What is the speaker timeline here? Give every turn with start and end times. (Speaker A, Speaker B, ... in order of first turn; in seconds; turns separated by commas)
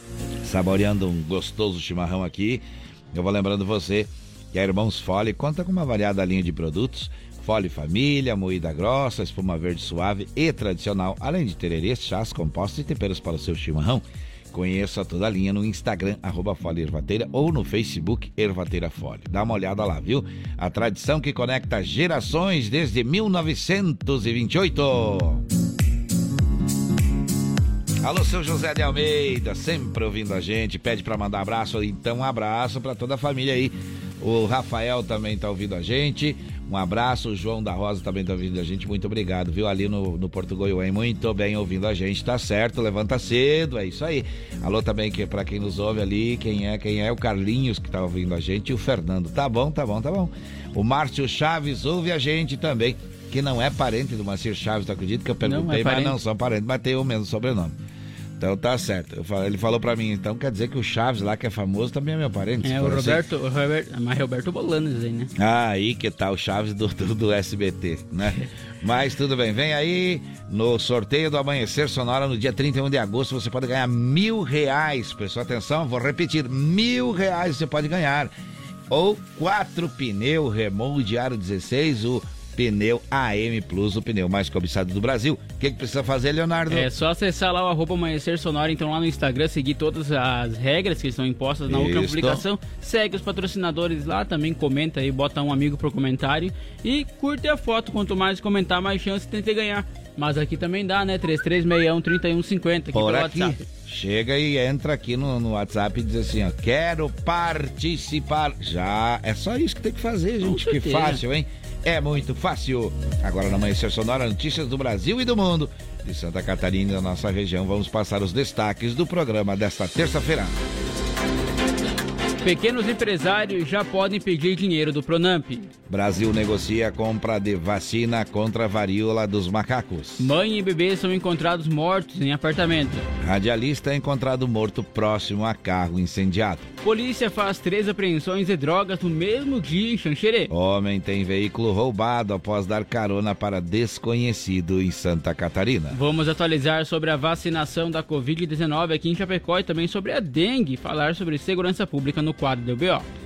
Speaker A: 0.4-25.4, Speaker A: 28.0-57.7, Speaker B: 55.5-56.2, Speaker A: 58.4-63.2, Speaker B: 62.6-65.3, Speaker A: 65.4-78.3, Speaker A: 78.9-86.9, Speaker B: 86.7-103.7, Speaker A: 91.7-92.4, Speaker A: 102.9-120.6, Speaker B: 110.4-111.2, Speaker B: 122.4-125.7, Speaker A: 125.9-130.3, Speaker B: 130.2-133.1, Speaker A: 133.2-136.7, Speaker B: 136.8-140.5, Speaker A: 140.5-146.0, Speaker B: 145.9-153.1